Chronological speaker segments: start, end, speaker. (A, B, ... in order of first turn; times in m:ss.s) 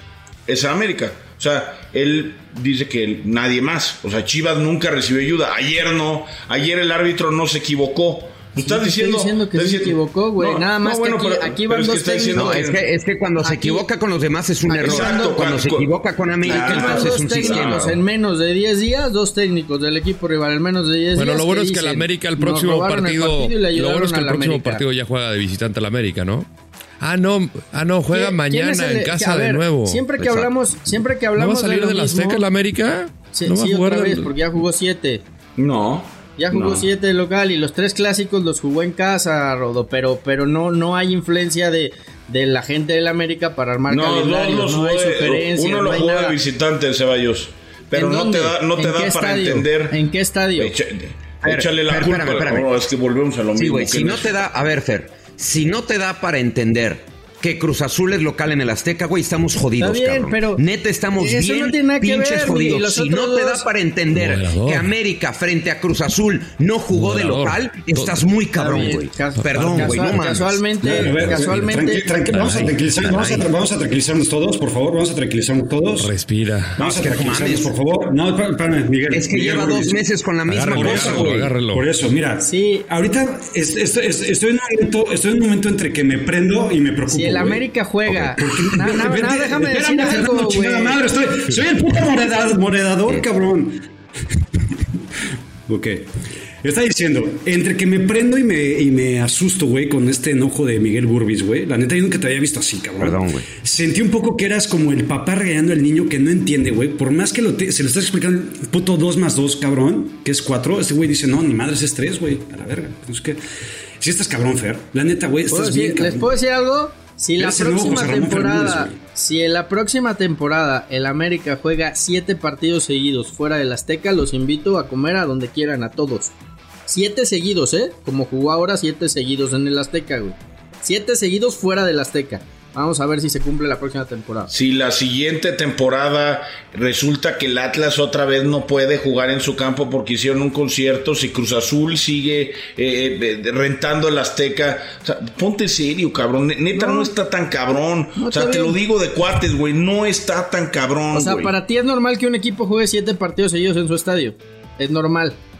0:00.5-0:12.8 A
0:08.6-0:12.6 B
0:12.3-0:17.9 C
0:13.4-0:13.8 B
0:14.7-0:15.4 B
0:14.8-0:15.9 A
0:16.4-0:18.0 A
0:16.4-0:24.8 B
0:21.1-0:26.5 D
0:27.0-0:30.1 D
0:28.1-0:32.4 B
0:30.2-0:30.5 C
0:31.4-0:34.3 D
0:33.3-0:35.2 B
0:35.6-0:36.9 A
0:36.4-0:46.4 B
0:43.9-0:50.0 A
0:47.9-0:50.7 B
0:50.6-0:54.4 A
0:51.4-0:52.7 C
0:53.5-1:10.7 C
0:59.8-1:00.6 B
1:01.2-1:03.6 B
1:04.1-1:04.9 D
1:06.9-1:08.2 D
1:08.5-1:12.3 B
1:10.8-1:16.1 E
1:11.2-1:11.5 D
1:12.3-1:13.4 D
1:16.0-1:17.0 D
1:16.8-1:20.0 E
1:17.0-1:17.7 C
1:19.1-1:21.5 C
1:20.5-1:21.8 D
1:20.7-1:33.9 E
1:22.4-1:22.9 B
1:27.1-1:31.0 B
1:35.6-1:36.1 E
1:36.6-1:53.4 E
1:43.0-1:43.4 C
1:54.0-1:56.3 E
1:55.5-2:06.3 B
1:57.4-1:59.0 E
2:06.9-2:14.5 B
2:14.5-2:31.5 A
2:26.7-2:27.1 B
2:28.2-2:28.8 B
2:31.1-2:35.4 B